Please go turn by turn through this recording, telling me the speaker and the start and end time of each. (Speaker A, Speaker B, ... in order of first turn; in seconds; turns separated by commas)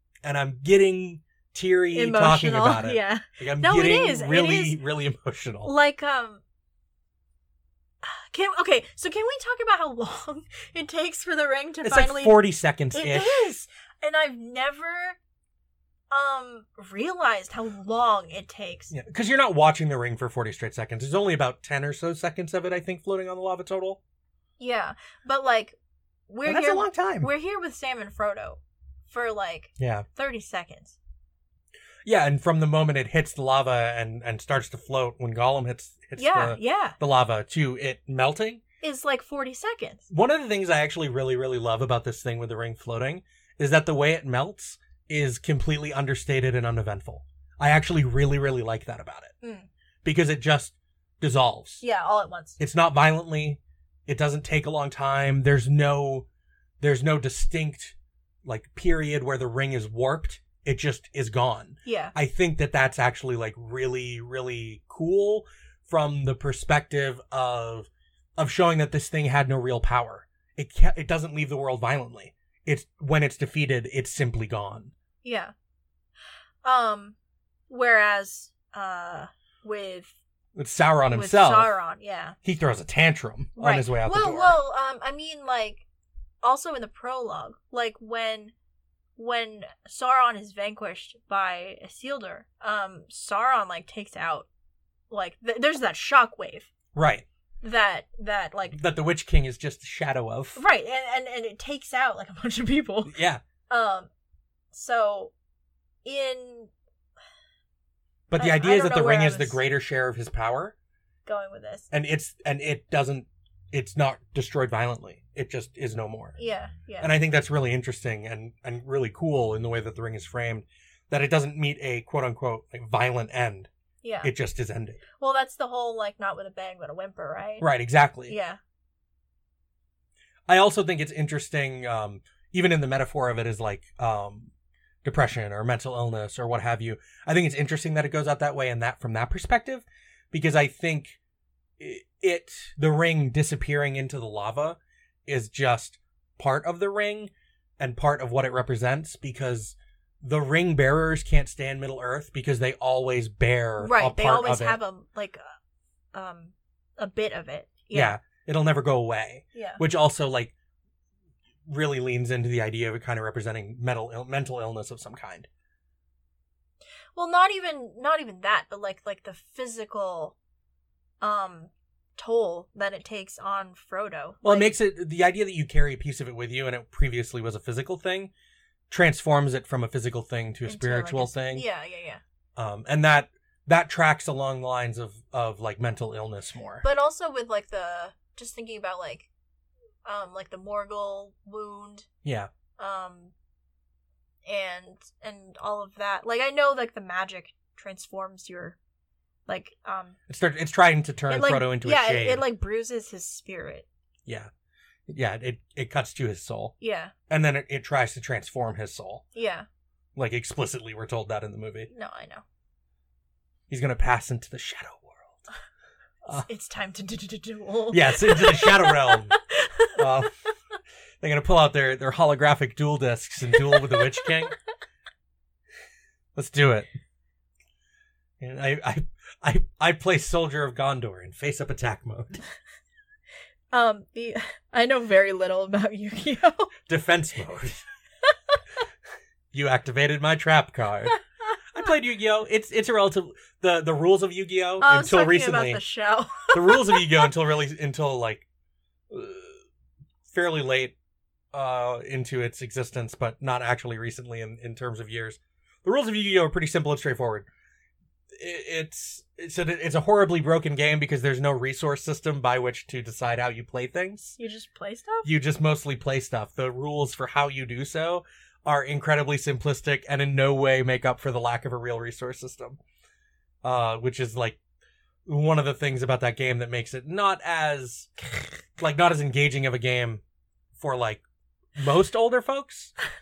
Speaker A: 0.2-5.7, Speaker B: 1.9-4.8, Speaker B: 5.6-6.4, Speaker B: 8.0-12.4, Speaker A: 11.8-13.5, Speaker B: 12.9-15.2, Speaker B: 16.1-18.9, Speaker A: 18.9-24.0, Speaker B: 24.6-25.8, Speaker B: 26.3-31.0, Speaker A: 26.4-27.3, Speaker A: 29.8-30.1, Speaker A: 32.0-38.6, Speaker B: 36.2-37.0, Speaker B: 38.8-40.1, Speaker A: 40.1-49.3, Speaker B: 49.4-49.7, Speaker A: 50.0-51.8, Speaker B: 51.8-52.6, Speaker A: 52.6-56.3, Speaker A: 56.8-74.9, Speaker B: 61.8-62.1, Speaker B: 75.2-75.5, Speaker B: 76.6-77.2, Speaker B: 77.7-80.2, Speaker A: 80.5-81.8, Speaker B: 81.1-82.3, Speaker A: 82.4-84.5, Speaker B: 83.6-85.8, Speaker B: 86.4-88.5, Speaker B: 89.2-94.5, Speaker B: 95.1-96.7, Speaker A: 96.9-97.2, Speaker B: 97.6-98.8, Speaker A: 98.7-100.6, Speaker B: 100.5-103.1, Speaker A: 103.0-103.4, Speaker B: 103.7-104.1, Speaker B: 104.7-105.3, Speaker B: 106.0-106.7, Speaker A: 108.3-110.7, Speaker B: 108.4-109.6, Speaker B: 111.2-111.9, Speaker A: 111.9-116.4, Speaker B: 116.4-117.1, Speaker A: 117.0-123.7, Speaker B: 124.0-124.3, Speaker A: 124.2-125.0, Speaker B: 125.2-127.7, Speaker A: 127.6-128.3, Speaker B: 128.3-128.6, Speaker A: 130.5-134.5, Speaker A: 135.0-141.2, Speaker A: 141.8-154.8, Speaker B: 153.8-155.4, Speaker B: 156.1-158.2, Speaker A: 157.9-160.5, Speaker B: 159.5-159.8, Speaker A: 161.7-165.5, Speaker B: 167.1-170.3, Speaker B: 171.2-174.7, Speaker A: 174.4-178.3, Speaker A: 178.9-181.6, Speaker B: 180.7-182.2, Speaker A: 182.6-186.8, Speaker B: 186.8-189.3, Speaker B: 190.0-192.1, Speaker A: 192.2-192.5, Speaker B: 192.8-193.3, Speaker B: 194.4-198.8, Speaker B: 199.5-200.2, Speaker A: 200.3-202.4, Speaker B: 201.3-203.8, Speaker A: 205.1-206.7, Speaker B: 206.8-207.1, Speaker A: 207.3-209.2, Speaker B: 209.3-209.7, Speaker A: 210.2-211.9, Speaker B: 211.9-212.4, Speaker A: 213.7-215.4, Speaker B: 216.3-220.0, Speaker A: 217.9-219.3, Speaker A: 219.9-220.3, Speaker A: 221.2-224.5, Speaker A: 226.3-226.9, Speaker A: 228.4-232.4, Speaker B: 233.7-236.7, Speaker A: 236.9-237.8, Speaker A: 239.5-241.2, Speaker A: 241.7-245.8, Speaker B: 244.8-247.2, Speaker A: 246.5-248.4, Speaker A: 249.1-249.6, Speaker A: 250.3-250.9, Speaker A: 251.5-257.5, Speaker A: 258.3-264.4, Speaker B: 264.4-265.3, Speaker A: 265.2-272.8, Speaker A: 273.6-274.6, Speaker A: 275.2-278.1, Speaker A: 278.8-280.2, Speaker A: 280.8-281.2, Speaker A: 281.8-282.9